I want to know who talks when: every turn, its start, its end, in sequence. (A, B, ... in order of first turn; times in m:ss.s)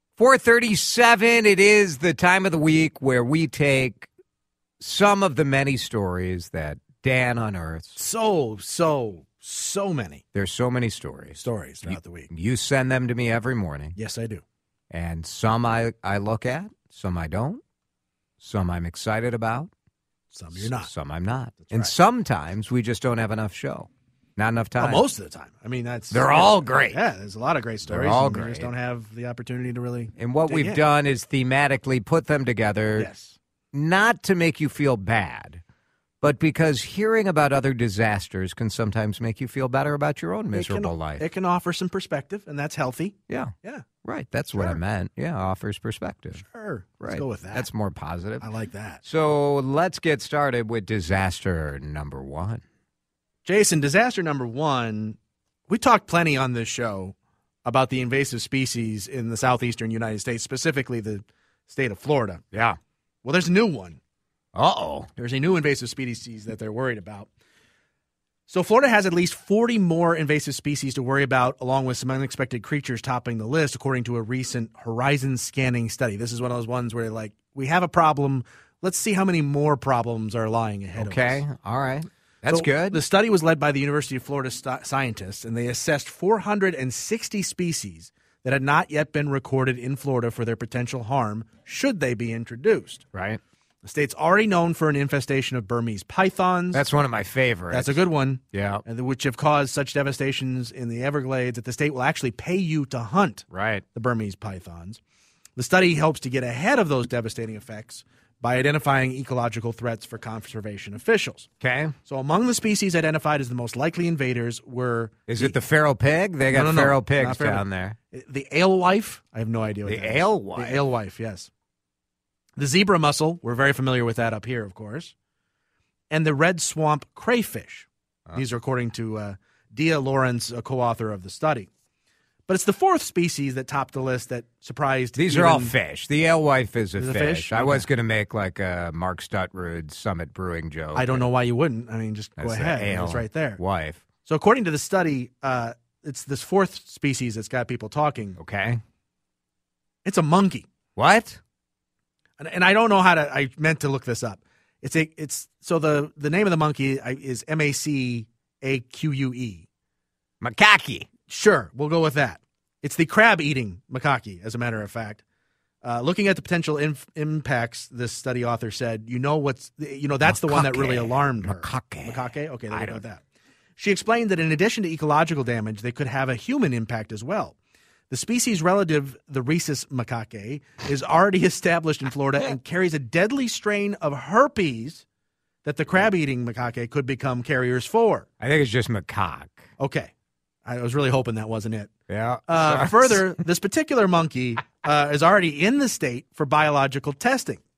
0:00.2-0:04.1 A
0:04.8-0:08.0 A
0:08.0-0:10.2 B
0:10.4-0:14.0 A
0:11.4-0:12.3 B
0:14.0-0:14.4 B
0:14.9-0:17.6 A
0:18.4-0:19.7 A
0:20.3-0:20.9 B
0:20.6-0:25.0 A
0:21.6-0:21.9 B
0:24.8-0:30.8 B
0:26.1-0:27.0 A
0:27.9-0:28.7 A
0:30.2-0:33.1 A
0:33.0-0:33.4 B
0:33.7-0:35.6 A
0:36.2-0:41.3 A
0:40.5-0:43.9 B
0:44.0-0:46.4 A
0:44.5-0:44.8 B
0:46.3-0:47.7 B
0:47.0-0:48.5 A
0:48.4-0:49.0 B
0:49.0-0:52.6 A
0:53.4-1:02.4 B
1:02.5-1:02.8 A
1:03.2-1:04.0 B
1:04.6-1:05.1 A
1:05.2-1:07.3 B
1:08.5-1:21.4 B
1:21.0-1:23.0 A
1:22.5-1:33.0 B
1:33.1-1:33.4 A
1:33.8-1:36.9 B
1:36.7-1:38.8 A
1:37.7-1:45.0 B
1:43.5-1:43.8 A
1:45.6-1:51.5 B
1:51.6-1:52.0 A
1:52.0-1:55.6 B
1:55.3-1:58.0 A
1:56.5-2:01.5 B
1:59.8-2:00.9 A
2:02.6-2:05.1 B
2:06.1-2:11.7 B
2:12.5-2:15.7 B
2:15.2-2:21.3 A
2:17.0-2:17.9 B
2:20.9-2:23.6 B
2:22.4-2:24.0 A
2:24.2-2:28.4 B
2:28.4-2:28.8 A
2:30.0-2:30.7 B
2:31.0-2:31.4 A
2:32.4-2:39.7 B
2:40.4-2:41.1 A
2:41.3-2:45.2 B
2:45.8-2:53.2 B
2:50.2-2:53.0 A
2:53.8-2:57.6 B
2:58.1-3:05.1 B
3:05.6-3:08.3 B
3:08.4-3:09.7 A
3:09.8-3:10.1 B
3:10.6-3:11.9 B
3:12.1-3:13.3 A
3:12.5-3:17.6 B